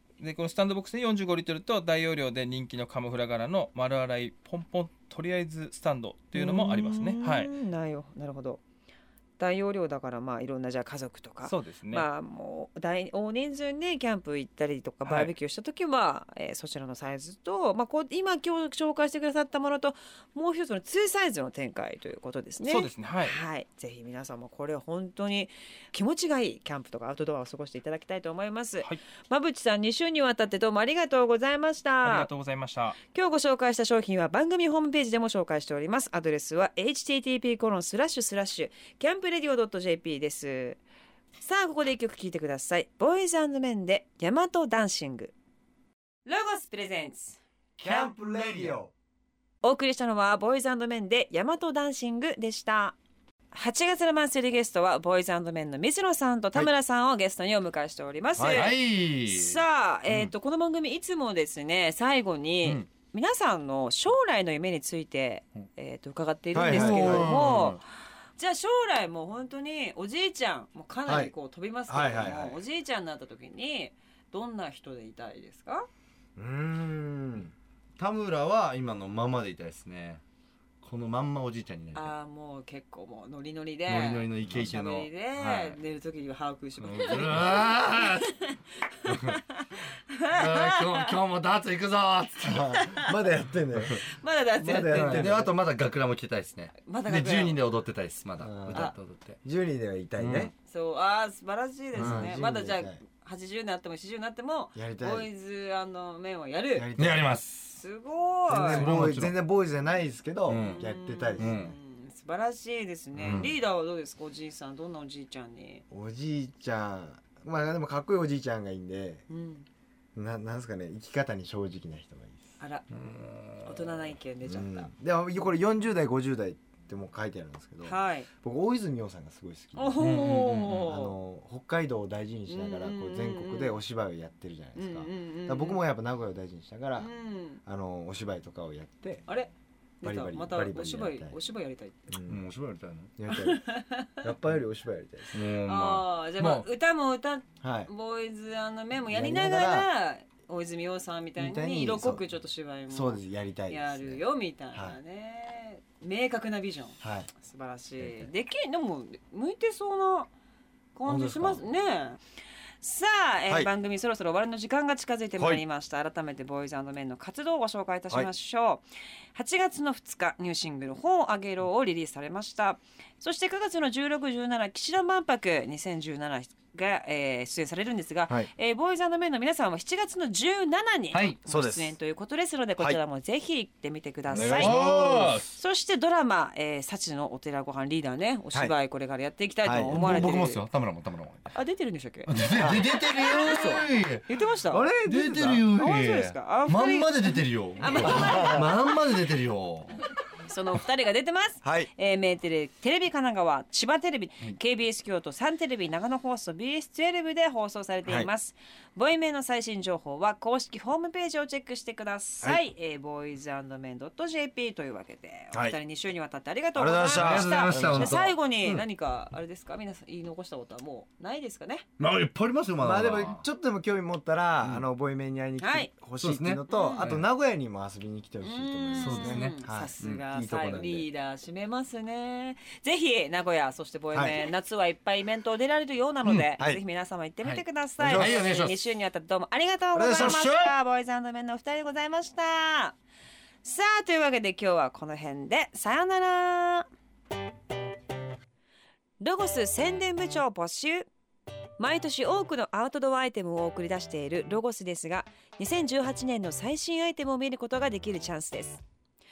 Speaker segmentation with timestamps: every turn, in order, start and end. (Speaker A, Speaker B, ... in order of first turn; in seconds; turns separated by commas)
Speaker A: 0.2-7.5, Speaker B: 6.3-8.6, Speaker B: 9.4-32.3, Speaker A: 11.4-12.1, Speaker A: 15.0-15.3, Speaker A: 22.6-23.4, Speaker A: 32.0-33.0, Speaker B: 33.1-40.8, Speaker B: 41.4-45.3, Speaker B: 46.2-47.4, Speaker C: 47.8-48.9, Speaker B: 49.6-53.0, Speaker B: 53.5-67.8, Speaker C: 58.4-58.7, Speaker D: 58.4-60.3, Speaker C: 66.5-67.6, Speaker D: 66.6-67.8, Speaker B: 68.4-75.9, Speaker C: 71.0-71.3, Speaker C: 71.9-72.6, Speaker C: 76.4-77.5, Speaker D: 78.0-80.2, Speaker D: 80.8-82.1, Speaker B: 81.9-91.2, Speaker D: 83.9-85.8, Speaker D: 86.8-88.3, Speaker D: 89.1-89.4, Speaker D: 90.3-92.8, Speaker C: 92.4-94.0, Speaker B: 92.7-93.1, Speaker B: 94.1-95.3, Speaker C: 94.6-95.5, Speaker D: 94.6-99.4, Speaker B: 96.8-97.6, Speaker C: 98.4-98.9, Speaker C: 99.4-100.5, Speaker D: 100.2-100.5, Speaker B: 100.7-106.9, Speaker C: 101.9-103.0, Speaker D: 102.0-102.3, Speaker C: 104.7-105.3, Speaker C: 106.7-107.3, Speaker D: 107.0-107.8, Speaker B: 107.8-108.9, Speaker C: 108.5-111.6, Speaker D: 108.5-109.3, Speaker D: 110.5-110.8, Speaker B: 110.6-115.8, Speaker D: 111.4-111.7, Speaker C: 113.2-113.5, Speaker D: 113.2-113.5, Speaker C: 115.9-119.2, Speaker B: 119.3-119.7, Speaker C: 120.1-122.5, Speaker B: 122.6-122.9, Speaker D: 122.9-124.0, Speaker B: 123.6-124.9, Speaker C: 124.4-137.1, Speaker B: 127.8-128.3, Speaker B: 129.8-131.2, Speaker D: 130.0-130.9, Speaker B: 132.5-133.8, Speaker B: 134.8-135.8, Speaker B: 137.0-137.6, Speaker C: 137.6-139.2, Speaker B: 139.3-142.1, Speaker C: 140.0-141.4, Speaker C: 142.1-142.4, Speaker D: 142.3-143.1, Speaker C: 143.2-145.4, Speaker B: 143.3-144.3, Speaker D: 145.3-146.7, Speaker B: 145.6-160.3, Speaker C: 147.6-147.9, Speaker C: 149.1-149.9, Speaker C: 151.4-152.3, Speaker C: 152.9-155.0, Speaker C: 157.0-157.3, Speaker B: 160.9-162.2, Speaker C: 161.1-161.6, Speaker B: 162.8-184.8, Speaker D: 181.1-181.4, Speaker C: 181.4-181.9, Speaker C: 184.3-185.4, Speaker D: 184.3-185.6, Speaker B: 185.5-190.6, Speaker C: 189.6-190.3, Speaker D: 189.7-191.5, Speaker B: 191.5-194.9, Speaker D: 192.3-194.3, Speaker C: 192.5-192.8, Speaker C: 194.7-195.7, Speaker D: 195.0-199.9, Speaker B: 195.7-198.7, Speaker C: 198.0-198.7, Speaker B: 200.4-221.8, Speaker C: 201.6-201.9, Speaker C: 215.5-215.8, Speaker C: 216.7-218.3, Speaker D: 217.1-218.8, Speaker D: 222.0-223.4, Speaker C: 222.8-231.1, Speaker B: 225.6-225.9, Speaker D: 226.2-227.3, Speaker B: 226.7-227.1, Speaker B: 228.4-242.9, Speaker D: 228.9-230.3, Speaker C: 234.1-234.4, Speaker D: 237.4-238.8, Speaker C: 238.0-238.4, Speaker C: 239.9-240.7, Speaker D: 240.0-240.6, Speaker B: 243.6-246.9, Speaker B: 249.2-251.1, Speaker B: 251.8-258.8